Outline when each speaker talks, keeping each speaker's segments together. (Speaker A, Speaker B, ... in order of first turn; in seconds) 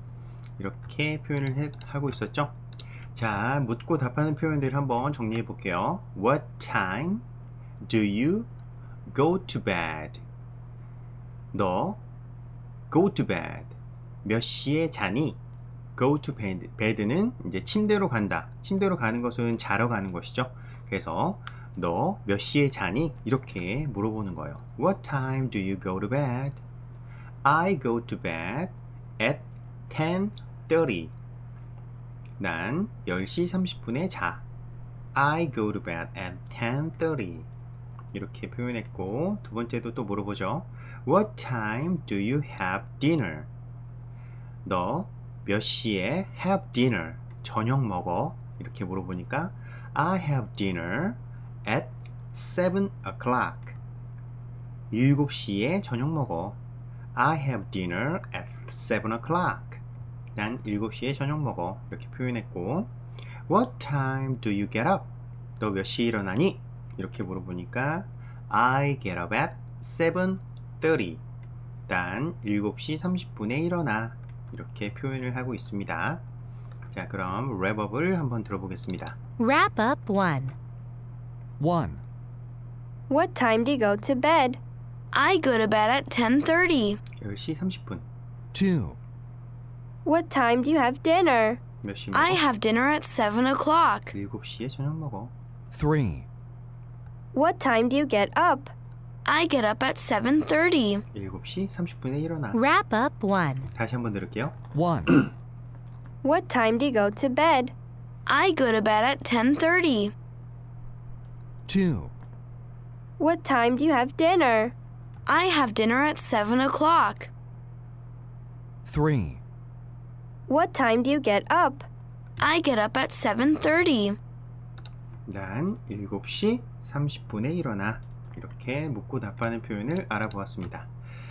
Speaker A: 0.6-2.6, 3.1-7.2, 7.8-8.5, 9.1-10.2, 11.5-12.0, 12.9-15.4, 16.0-26.6, 27.4-31.1, 32.4-34.4, 35.1-37.5, 38.1-43.5, 44.6-53.8, 54.9-56.6, 57.1-59.8, 60.4-62.9, 63.5-71.2, 71.9-76.2, 76.9-79.2, 87.2-88.1, 91.8-92.4, 94.1-95.3, 101.1-102.6, 103.7-104.5, 125.3-130.9
Speaker B: 79.4-80.5, 102.5-103.7
Speaker C: 81.6-82.0, 88.5-89.0, 95.7-96.2, 104.7-105.2, 111.7-112.1, 118.9-119.4
Speaker D: 83.1-84.6, 90.0-91.6, 97.3-98.7, 106.2-107.8, 113.2-114.8, 120.5-121.9
Speaker E: 85.1-87.0, 92.1-94.1, 99.2-101.0, 108.3-110.1, 115.3-117.3, 122.4-124.2